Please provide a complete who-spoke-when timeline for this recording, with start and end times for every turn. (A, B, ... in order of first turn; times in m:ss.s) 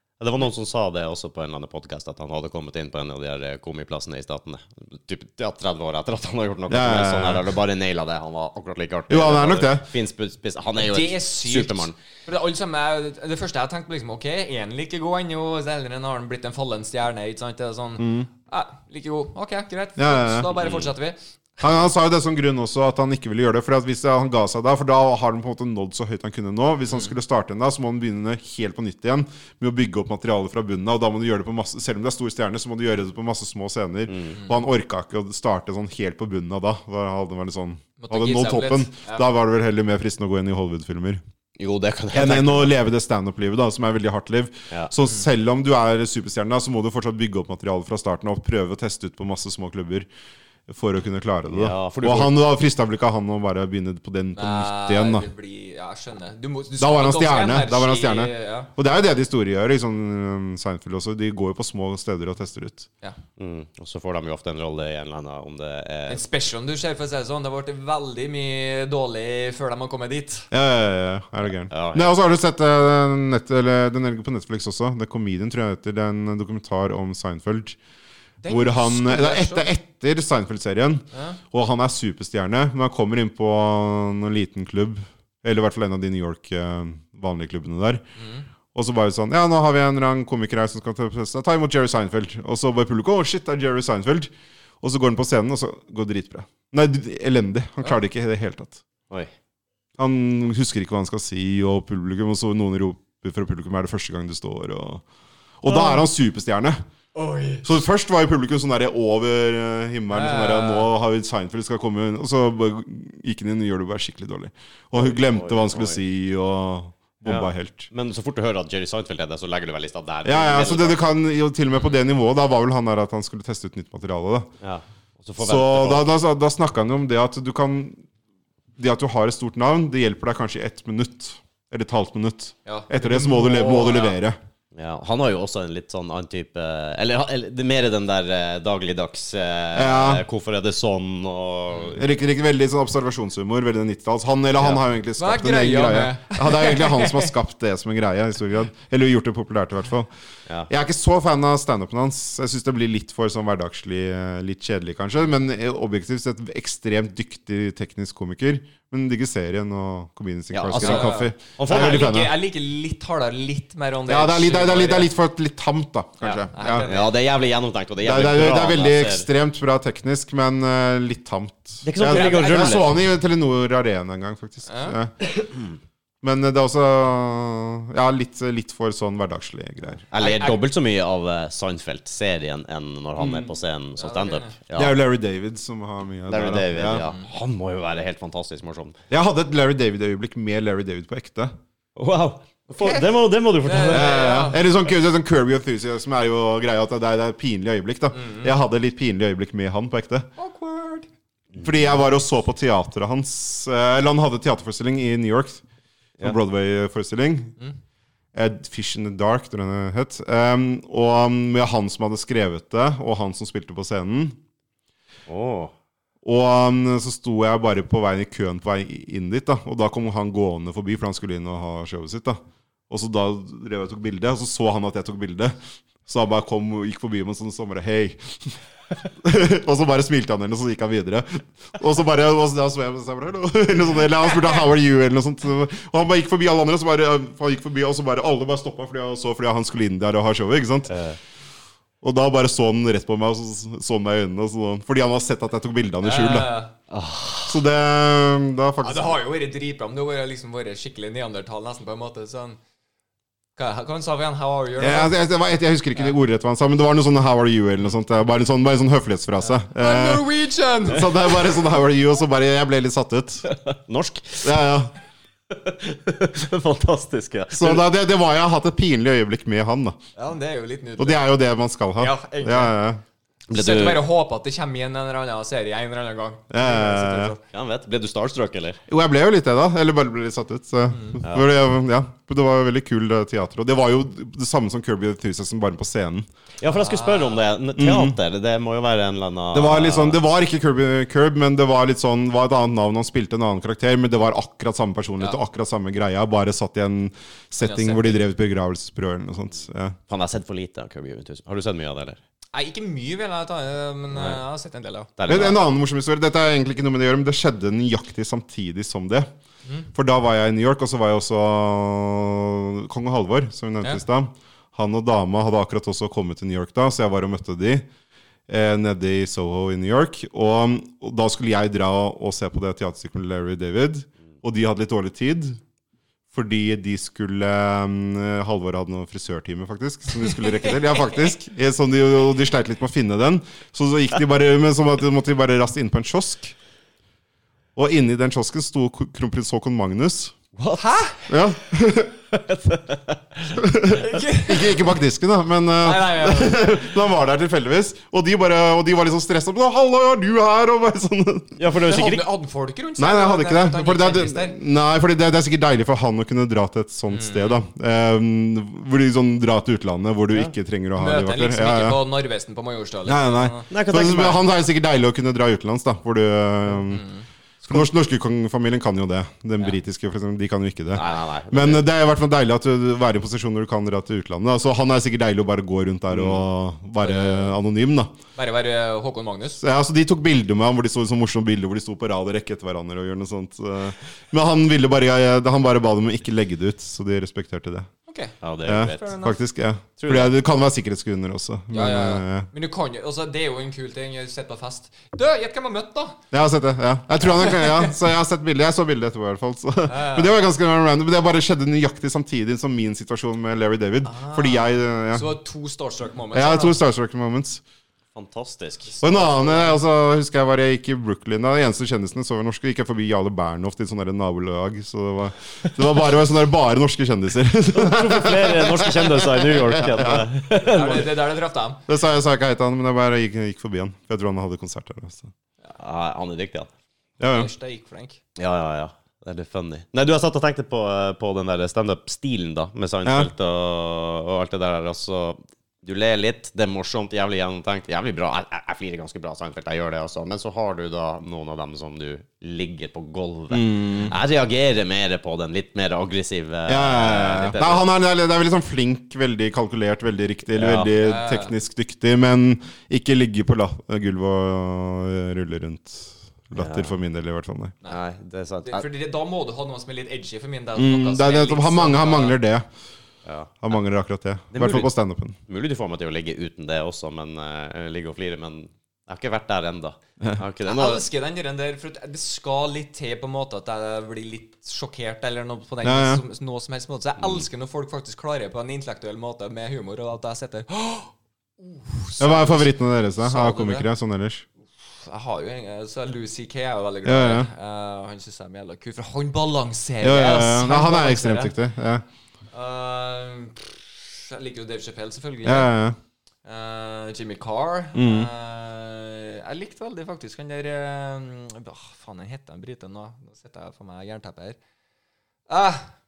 0:00.2-0:11.9 A
0:06.7-0:07.4 B
0:09.1-0:09.9 B
0:10.8-0:21.8 C
0:18.0-0:18.3 B
0:20.0-0:20.5 B
0:20.6-0:20.9 A
0:21.6-0:41.2 B
0:34.1-0:34.3 A
0:38.0-0:39.2 C
0:41.6-0:42.8 A
0:42.1-0:50.1 B
0:50.7-0:55.3 B
0:51.5-0:52.4 A
0:54.3-0:58.7 C
0:56.8-1:02.9 B
1:03.4-1:06.2 A
1:06.1-1:10.5 C
1:10.5-1:17.8 B
1:11.7-1:12.1 A
1:18.4-1:19.7 C
1:18.5-1:28.0 B
1:21.1-1:21.4 C
1:28.2-1:28.5 C
1:28.7-1:38.8 B
1:40.0-1:45.0 B
1:45.6-1:46.8 B
1:45.6-1:46.0 C
1:47.1-1:47.6 C
1:47.6-1:57.9 B
1:50.1-1:50.9 C
1:55.0-1:56.0 A
1:57.2-2:01.0 A
2:00.2-2:04.5 B
2:04.6-2:06.1 A
2:05.4-2:08.0 B
2:08.8-2:14.4 B
2:12.6-2:14.2 C
2:14.7-2:22.0 A
2:19.7-2:20.2 B
2:21.9-2:30.1 B
2:24.6-2:24.8 A
2:25.2-2:27.3 C
2:30.7-2:42.3 B
2:40.5-2:42.2 A
2:40.8-2:45.1 C
2:44.1-2:46.9 B
2:46.2-2:47.1 C
2:46.8-2:49.3 A
2:48.0-2:55.2 B
2:51.8-2:52.9 A
2:52.0-2:52.8 C
2:54.7-2:55.0 C
2:56.2-3:00.0 B
3:00.1-3:05.0 A
3:00.1-3:00.6 C
3:03.2-3:03.5 B
3:04.0-3:04.5 C
3:04.7-3:07.0 B
3:06.3-3:09.0 A
3:07.0-3:07.2 C
3:09.1-3:11.5 B
3:12.0-3:14.3 A
3:13.6-3:14.6 C
3:13.9-3:20.3 B
3:18.1-3:18.5 C
3:20.4-3:21.1 C
3:21.6-3:25.6 B
3:26.2-3:27.5 B
3:28.3-3:34.4 B
3:35.3-3:35.7 A
3:36.2-4:00.9 B
4:00.9-4:01.2 A
4:02.0-4:06.6 B
4:06.0-4:06.7 C
4:06.9-4:07.6 A
4:07.5-4:09.2 B
4:08.8-4:12.6 C
4:13.6-4:15.1 C
4:14.8-4:20.3 B
4:19.4-4:21.5 C
4:20.8-4:23.5 B
4:23.6-4:24.6 A
4:24.4-4:24.9 B
4:25.5-4:27.8 A
4:27.5-4:30.0 B
4:30.2-4:31.2 C
4:31.0-4:33.0 B
4:32.0-4:32.8 C
4:33.5-4:34.0 A
4:33.5-4:37.4 C
4:36.5-4:37.3 B
4:37.5-4:38.8 A
4:38.9-4:46.2 B
4:40.9-4:41.2 C
4:46.6-4:50.2 A
4:46.7-4:47.4 C
4:47.8-4:48.2 B
4:49.5-5:00.0 B
4:57.6-4:58.2 C
5:00.1-5:02.2 A
5:02.5-5:05.4 C
5:04.1-5:04.4 A
5:05.2-5:05.6 A
5:05.3-5:09.3 B
5:09.9-5:17.9 B
5:18.5-5:25.6 B
5:26.3-5:36.6 B
5:30.2-5:31.3 C
5:37.8-5:40.3 B
5:40.6-5:40.9 A
5:40.8-5:41.2 C
5:41.3-5:42.1 B
5:42.3-5:43.6 A
5:43.6-5:51.6 B
5:44.0-5:44.8 C
5:45.8-5:46.7 C
5:51.6-5:52.3 A
5:51.8-5:54.6 C
5:53.0-6:02.0 B
5:57.1-5:57.6 C
6:01.0-6:03.6 C
6:03.0-6:07.0 B
6:03.7-6:04.4 A
6:06.7-6:07.2 C
6:07.7-6:18.1 B
6:10.9-6:11.8 A
6:16.1-6:16.4 A
6:17.0-6:17.5 C
6:18.4-6:19.6 C
6:19.6-6:27.9 B
6:28.1-6:29.4 C
6:28.4-6:29.1 A
6:28.6-6:32.5 B
6:30.0-6:30.3 A
6:31.7-6:36.2 C
6:36.3-6:45.3 B
6:37.2-6:37.9 C
6:39.9-6:40.4 C
6:44.0-6:46.8 C
6:46.3-6:47.6 B
6:48.1-6:48.9 A
6:48.9-6:49.8 C
6:49.0-7:01.0 B
6:57.7-7:01.1 A
7:00.6-7:01.8 C
7:01.9-7:05.3 B
7:05.7-7:06.7 A
7:07.2-7:07.5 B
7:07.3-7:08.2 C
7:08.4-7:27.8 A
7:13.0-7:13.3 B
7:23.5-7:24.2 B
7:26.7-7:37.7 B
7:30.5-7:30.9 A
7:30.9-7:31.5 C
7:36.5-7:37.0 A
7:37.9-7:38.8 A
7:38.6-7:42.4 C
7:40.8-7:42.6 B
7:43.2-7:43.6 A
7:43.6-7:45.4 B
7:44.5-7:44.9 A
7:45.5-7:51.0 A
7:50.6-8:03.8 C
7:55.8-7:56.2 B
8:02.2-8:04.4 B
8:05.0-8:11.5 C
8:07.0-8:07.5 B
8:10.0-8:12.0 B
8:12.5-8:15.7 C
8:15.4-8:16.0 B
8:16.4-8:24.6 C
8:17.9-8:18.3 B
8:25.5-8:25.9 C